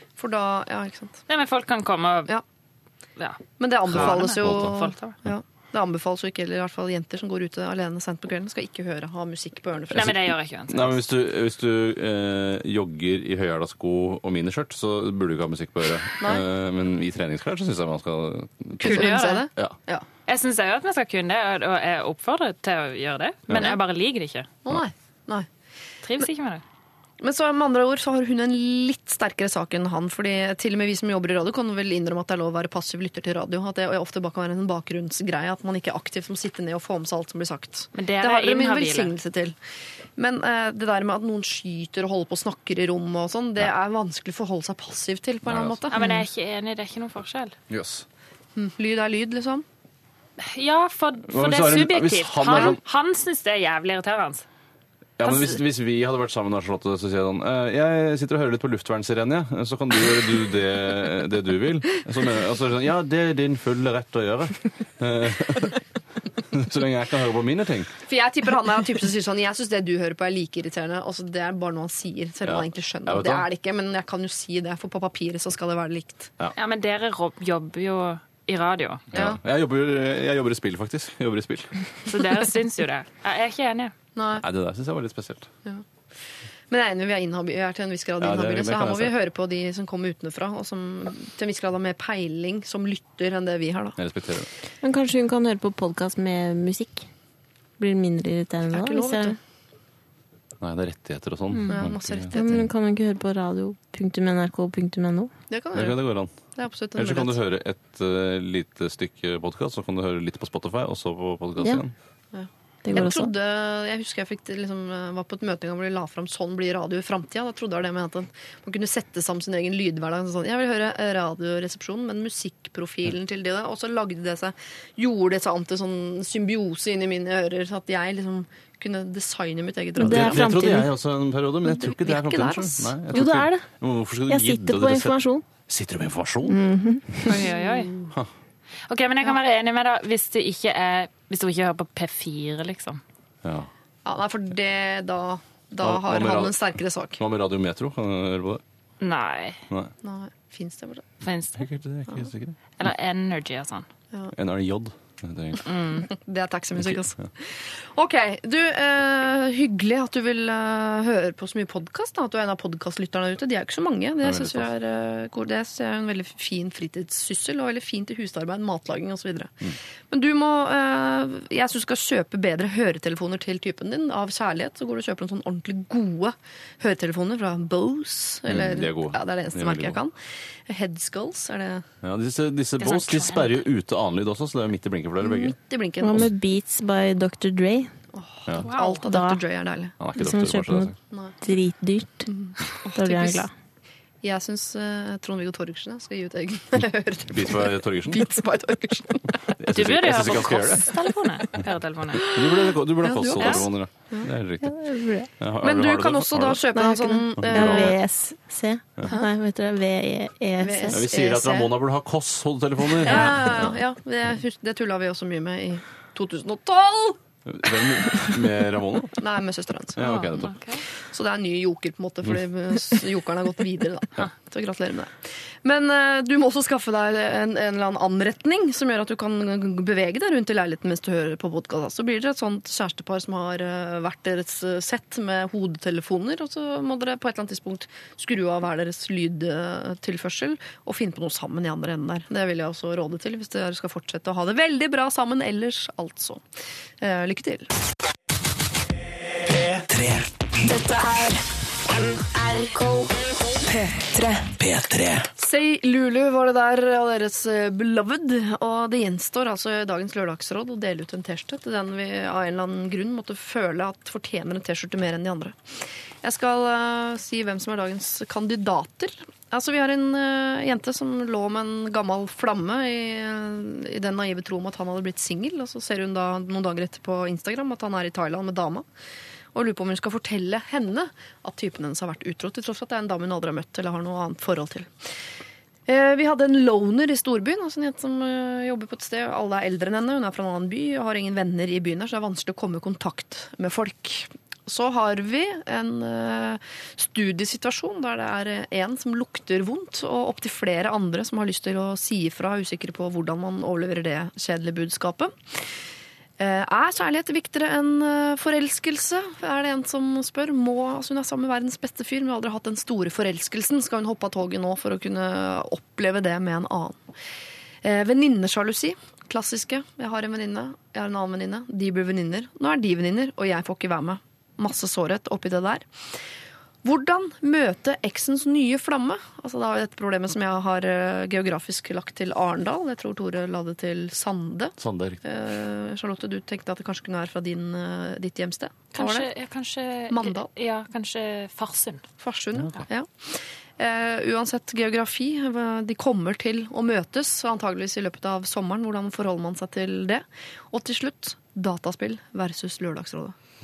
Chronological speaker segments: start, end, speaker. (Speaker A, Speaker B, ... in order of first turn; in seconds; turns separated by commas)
Speaker A: 0.2-1.2, Speaker B: 1.3-2.3, Speaker B: 3.2-5.1, Speaker A: 3.6-10.2, Speaker C: 3.9-4.7, Speaker B: 9.9-11.0, Speaker C: 9.9-19.7, Speaker A: 16.2-16.4, Speaker A: 18.8-20.0, Speaker B: 18.8-19.5, Speaker B: 20.3-24.5, Speaker C: 23.5-23.8, Speaker A: 24.6-25.5, Speaker B: 26.0-26.6, Speaker A: 27.2-39.5, Speaker B: 37.9-39.1, Speaker A: 40.2-46.0, Speaker C: 45.5-45.8, Speaker B: 45.9-47.5, Speaker C: 47.7-48.0, Speaker A: 48.5-49.6, Speaker B: 50.4-54.4, Speaker C: 51.3-52.8, Speaker A: 52.5-52.7, Speaker C: 55.2-65.8, Speaker C: 66.5-67.9, Speaker A: 68.1-76.3, Speaker C: 72.4-73.5, Speaker B: 76.5-79.0, Speaker C: 79.1-81.7, Speaker A: 79.1-79.4, Speaker B: 82.1-83.9, Speaker A: 84.2-84.4, Speaker C: 84.3-85.5, Speaker A: 86.7-94.0, Speaker C: 88.2-89.1, Speaker C: 94.0-94.5, Speaker D: 94.8-97.1, Speaker D: 97.8-99.3, Speaker A: 98.7-99.4, Speaker C: 100.6-102.6, Speaker D: 101.5-105.3, Speaker A: 101.7-102.7, Speaker A: 105.5-106.0, Speaker C: 105.7-106.3, Speaker A: 106.5-107.4, Speaker C: 106.9-111.9, Speaker A: 112.3-130.5, Speaker D: 112.8-113.3, Speaker D: 130.0-130.9, Speaker C: 130.0-136.6, Speaker A: 131.6-133.0, Speaker D: 133.1-133.7, Speaker D: 134.3-135.4, Speaker D: 136.5-137.4, Speaker B: 137.3-137.9, Speaker A: 137.3-138.1, Speaker B: 138.9-143.0, Speaker C: 143.4-143.7, Speaker A: 144.0-147.2, Speaker C: 145.8-148.6, Speaker B: 149.0-149.6, Speaker A: 150.0-151.0, Speaker B: 151.2-151.6, Speaker C: 151.6-152.8, Speaker B: 152.8-153.8, Speaker C: 154.3-155.7, Speaker B: 155.7-156.0, Speaker A: 155.8-180.1, Speaker C: 156.8-157.2, Speaker C: 164.2-164.7, Speaker C: 178.5-180.0, Speaker A: 180.7-181.8, Speaker C: 182.0-185.5, Speaker B: 182.8-183.6, Speaker A: 185.2-186.3, Speaker D: 186.0-187.9, Speaker A: 188.1-189.9, Speaker B: 188.6-189.0, Speaker D: 189.0-189.4, Speaker C: 190.0-190.9, Speaker D: 190.1-192.3, Speaker A: 191.1-191.4, Speaker A: 192.3-193.5, Speaker D: 192.9-193.5, Speaker A: 194.2-199.5, Speaker C: 197.3-198.3, Speaker C: 199.6-201.0, Speaker B: 199.7-202.3, Speaker A: 202.2-204.3, Speaker C: 202.2-204.8, Speaker B: 203.4-203.6, Speaker D: 204.6-205.3, Speaker C: 205.4-206.7, Speaker A: 205.6-208.0, Speaker D: 206.7-211.0, Speaker C: 207.4-208.0, Speaker A: 209.0-209.3, Speaker A: 210.6-211.7, Speaker C: 210.9-213.8, Speaker A: 213.0-217.2, Speaker C: 217.4-219.2, Speaker A: 219.2-220.2, Speaker C: 219.9-220.6, Speaker B: 220.0-220.8, Speaker A: 221.1-246.4, Speaker A: 247.0-247.7, Speaker E: 249.5-251.4, Speaker E: 252.0-253.1, Speaker E: 253.7-255.3, Speaker A: 255.4-265.6, Speaker A: 266.2-278.8, Speaker A: 279.5-284.9, Speaker A: 285.9-305.3, Speaker A: 306.4-317.0, Speaker A: 317.8-325.9, Speaker A: 326.8-339.3, Speaker C: 334.8-335.2, Speaker B: 338.9-342.0, Speaker A: 340.1-340.5, Speaker A: 342.2-353.4